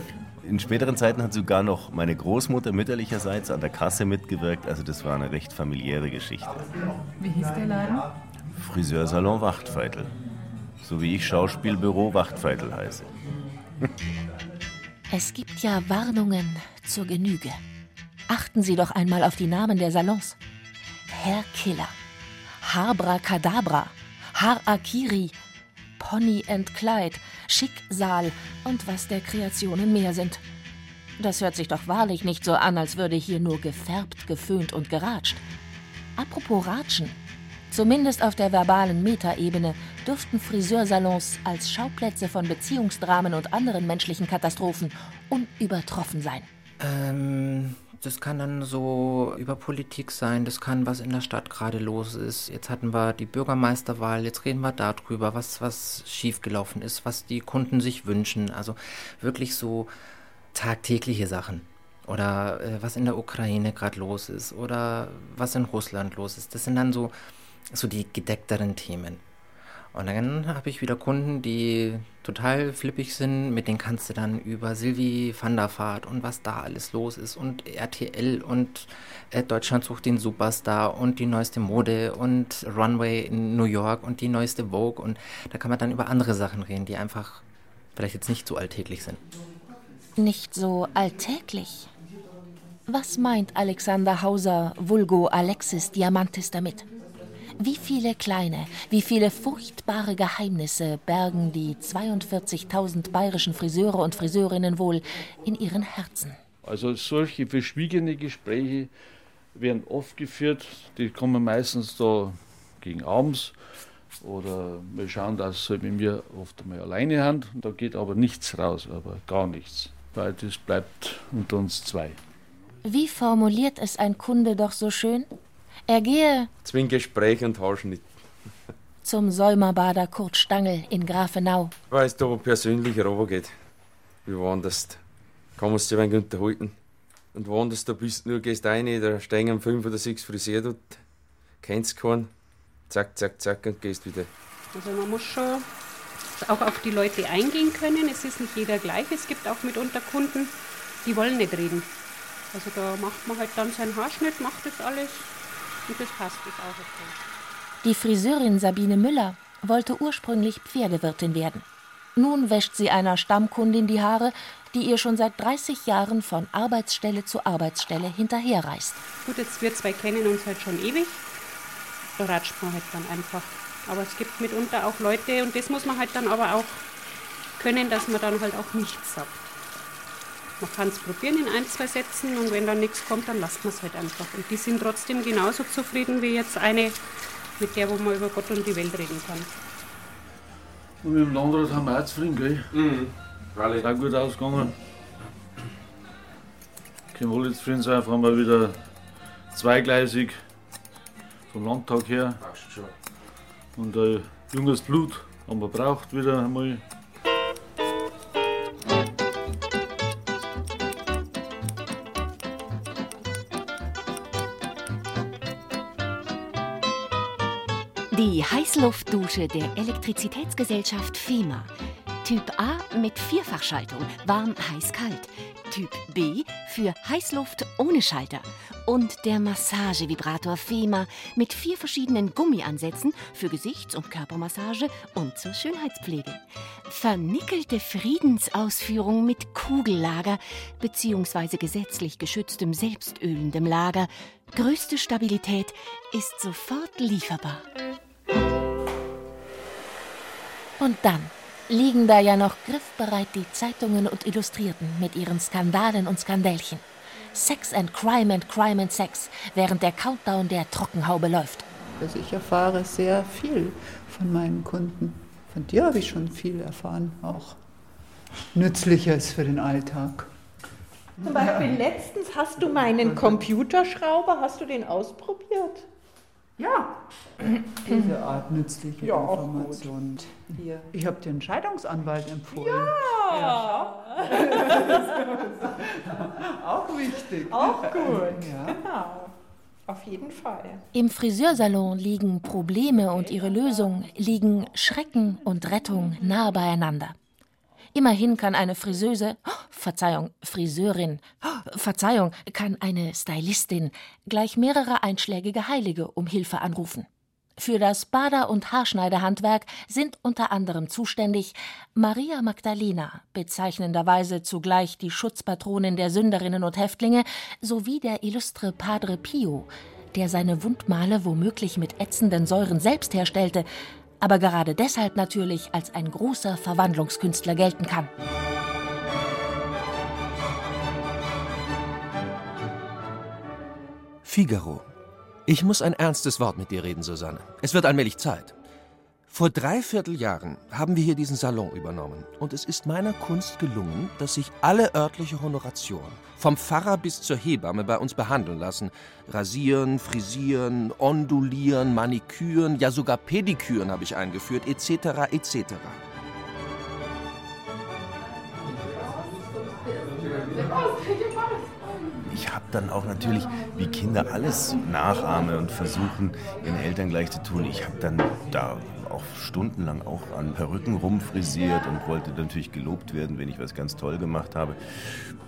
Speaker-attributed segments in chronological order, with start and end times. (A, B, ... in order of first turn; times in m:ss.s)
0:00.4-0:06.7 A
0:08.5-0:10.1 A
0:10.8-0:13.1 A
0:15.1-0:17.6 B
0:18.3-0:20.4 B
0:21.1-0:21.9 B
0:22.6-0:25.3 B
0:26.0-0:30.4 B
0:31.2-0:35.4 B
0:36.2-0:37.2 B
0:37.7-0:46.5 B
0:46.8-0:59.9 C
1:00.5-1:07.2 C
1:07.7-1:09.2 C
1:09.9-1:27.4 C
1:28.0-1:29.2 C
1:30.2-1:31.9 B
1:32.9-1:36.9 B
1:37.6-1:46.4 B
1:46.6-1:48.9 D
1:49.5-1:53.5 D
1:54.2-2:02.2 D
2:02.8-2:05.3 B
2:05.9-2:06.5 B
2:06.6-2:08.1 E
2:09.0-2:11.7 B
2:11.9-2:13.5 E
2:14.2-2:15.0 E
2:15.6-2:16.8 E
2:17.3-2:21.0 E
2:21.6-2:22.3 E
2:22.9-2:24.3 E
2:24.7-2:25.6 F
2:26.4-2:30.5 F
2:31.0-2:31.9 F
2:32.5-2:35.3 F
2:35.9-2:37.1 F
2:37.8-2:41.6 B
2:42.2-2:49.0 B
2:49.2-2:51.2 F
2:52.2-2:56.8 F
2:57.6-2:59.4 F
3:00.6-3:07.0 F
3:07.6-3:09.5 F
3:11.0-3:12.7 D
3:12.7-3:13.8 E
3:13.8-3:14.7 D
3:17.1-3:18.8 D
3:19.5-3:20.4 D
3:21.5-3:22.4 D
3:23.8-3:26.8 D
3:38.1-3:41.7 G
3:42.2-4:07.6 G
4:10.8-4:21.6 B
4:22.0-4:27.6 H
4:28.5-4:30.3 H
4:31.2-4:35.8 I
4:31.3-4:31.8 H
4:32.7-4:33.4 H
4:37.8-4:43.8 H
4:37.9-4:38.1 I
4:39.0-4:40.8 I
4:42.5-4:45.4 I
4:44.4-4:48.8 H
4:47.5-4:49.3 I
4:49.9-4:50.8 I
4:50.9-4:57.1 B
4:57.9-5:07.1 B
5:07.6-5:23.7 B
5:24.2-5:28.1 B
5:34.2-5:34.9 J
5:35.5-5:38.5 J
5:39.3-5:56.0 J
6:02.2-6:14.8 A